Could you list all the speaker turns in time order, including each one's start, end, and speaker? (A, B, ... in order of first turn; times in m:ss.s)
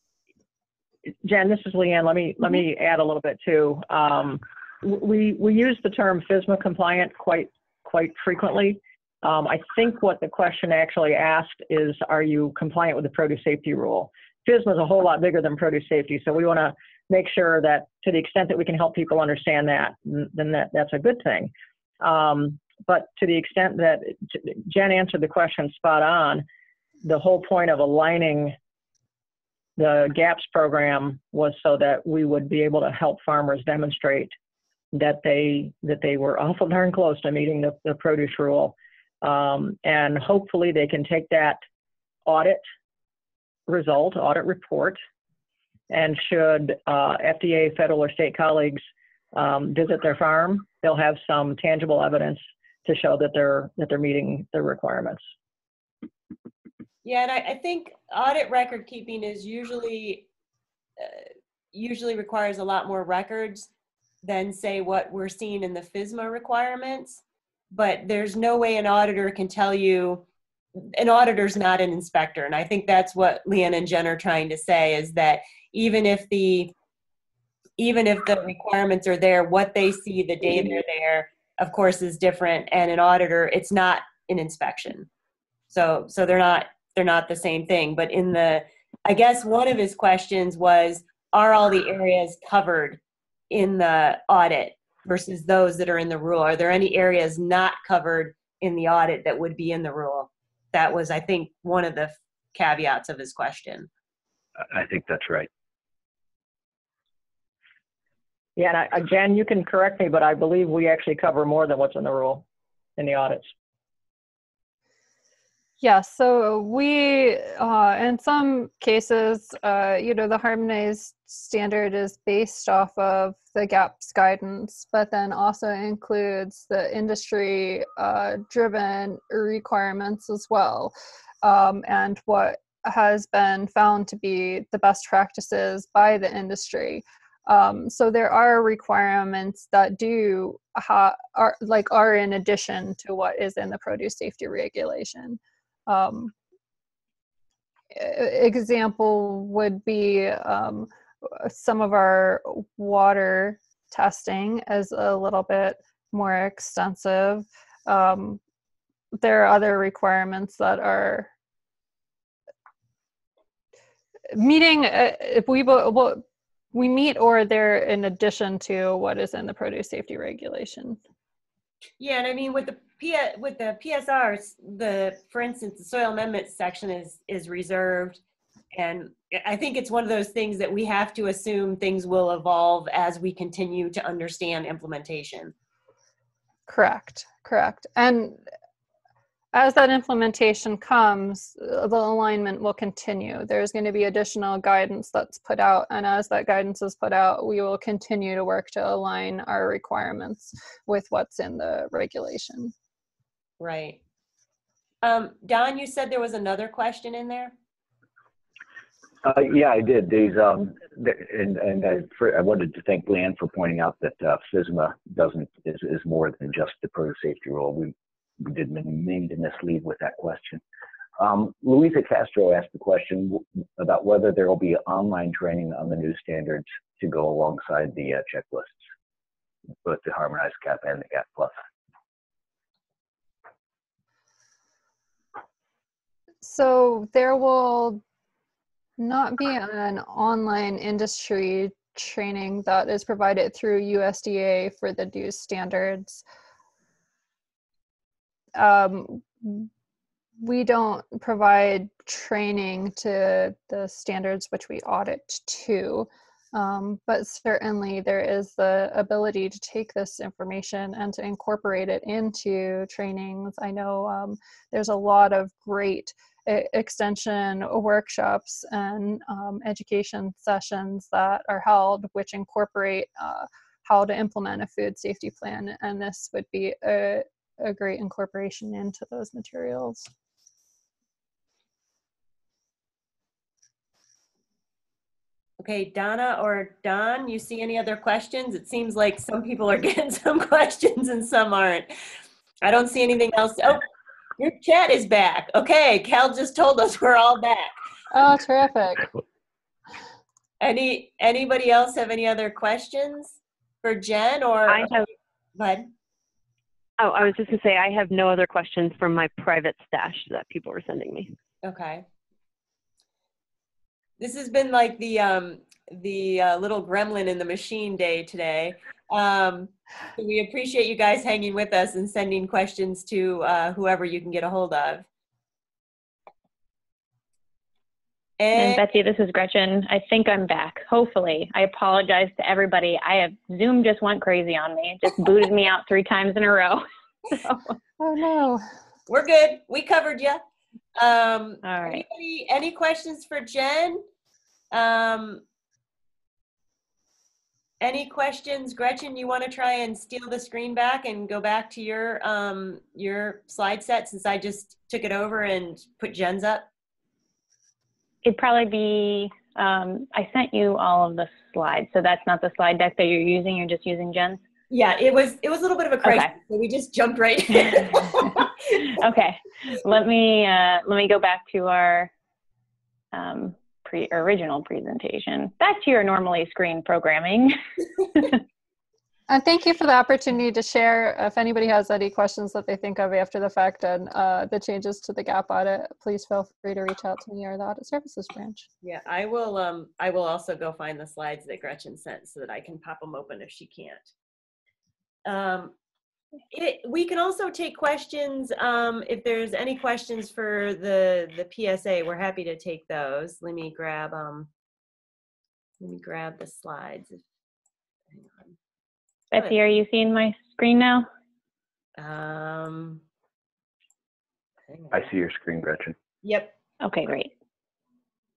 0:01.2-0:26.4 A
0:27.0-0:28.6 A
0:29.8-0:34.3 A
0:34.9-0:41.6 A
0:42.3-0:42.6 A
0:43.7-0:45.0 A
0:45.9-0:48.8 A
0:49.3-0:55.2 A
0:57.0-1:00.3 B
1:01.7-1:03.7 B
1:04.2-1:10.2 B
1:10.8-1:16.7 B
1:17.8-1:25.1 B
1:25.7-1:33.0 B
1:33.5-1:43.9 B
1:44.7-1:45.5 C
1:48.6-1:52.4 A
1:53.0-1:53.5 A
1:55.8-2:26.3 D
2:27.9-2:38.4 D
2:39.2-2:41.3 D
2:44.3-2:51.0 D
2:52.0-2:58.2 B
2:58.7-3:05.5 B
3:06.7-3:08.4 D
3:09.5-3:22.7 D
3:23.6-3:24.0 B
3:25.0-3:27.5 B
3:29.2-3:40.6 C
3:41.2-3:48.8 C
3:49.8-3:51.6 C
3:56.4-3:58.0 D
3:59.0-4:06.2 D
4:08.6-4:09.7 D
4:10.4-4:40.1 D
4:45.6-4:51.9 B
4:52.6-4:53.8 B
4:54.4-4:57.7 B
4:58.1-4:59.1 D
5:00.6-5:04.9 B
5:04.7-5:05.0 E
5:05.6-5:05.9 B
5:07.0-5:11.4 E
5:11.6-5:12.0 B
5:14.2-5:25.1 B
5:28.4-5:28.8 B
5:28.6-5:36.8 F
5:38.0-5:38.6 D
5:39.1-5:40.4 B
5:41.0-5:44.0 B
5:41.6-5:42.0 F
5:44.7-5:45.4 B
5:47.8-5:56.7 B
5:58.2-6:04.4 F
6:04.7-6:08.4 B
6:06.0-6:06.3 F
6:07.7-6:12.1 F
6:13.1-6:17.6 F
6:19.3-6:28.7 D
6:28.8-6:34.1 B
6:35.3-6:35.8 B
6:36.5-6:44.5 B
6:45.8-6:47.2 B
6:48.1-6:48.6 B
6:49.3-6:51.1 F
6:52.0-6:53.0 B
6:54.7-6:55.1 B
6:54.9-6:56.0 C
6:56.2-6:56.5 B
6:56.8-6:57.3 F